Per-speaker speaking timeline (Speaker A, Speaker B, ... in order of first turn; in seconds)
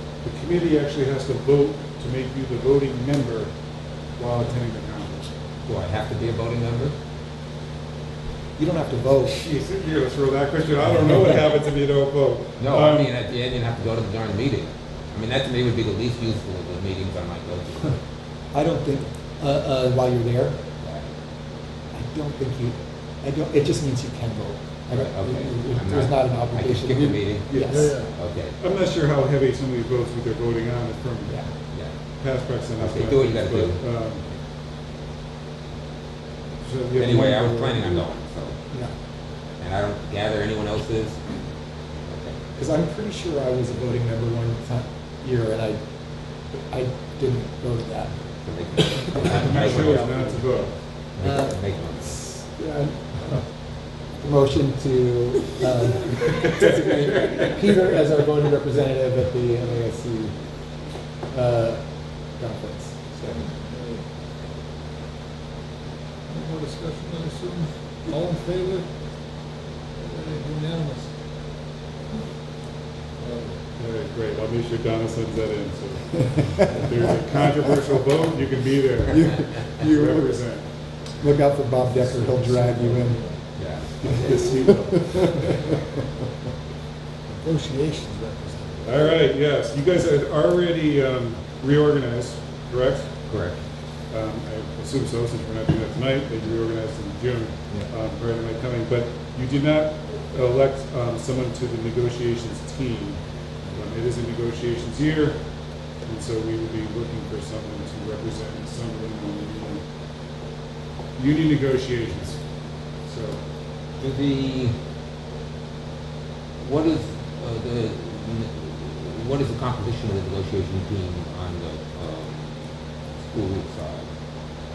Speaker A: 0.2-3.5, 4.2-5.3, 9.2-13.2, 27.5-27.9, 28.6-31.4, 32.2-34.2, 36.6-38.1, 49.3-50.7, 56.2-57.8, 73.7-80.6, 84.0-85.7, 88.8-93.1, 94.1-103.2, 103.7-105.4, 106.0-109.8, 111.2-112.4, 113.0-113.4
Speaker B: 5.7-6.9, 11.0-11.4, 12.6-18.0, 20.8-21.1, 24.9-28.6, 32.8-33.8, 36.9-38.5, 39.6-41.2, 42.1-42.4, 48.4-50.1, 51.1-52.2, 56.5-57.6, 83.5-84.4, 93.3-93.6, 114.0-114.8, 116.6-122.6, 123.2-124.1
Speaker C: 8.6-9.4, 18.5-20.6, 21.9-28.0, 42.5-45.8, 46.7-48.1, 49.0-50.4, 51.2-51.6, 52.1-53.4, 54.2-60.3, 61.3-61.8, 62.4-63.5, 79.1-80.4, 81.2-83.2
Speaker D: 27.7-28.1, 66.3-68.8, 70.0-71.1, 73.2-73.6, 87.4-89.0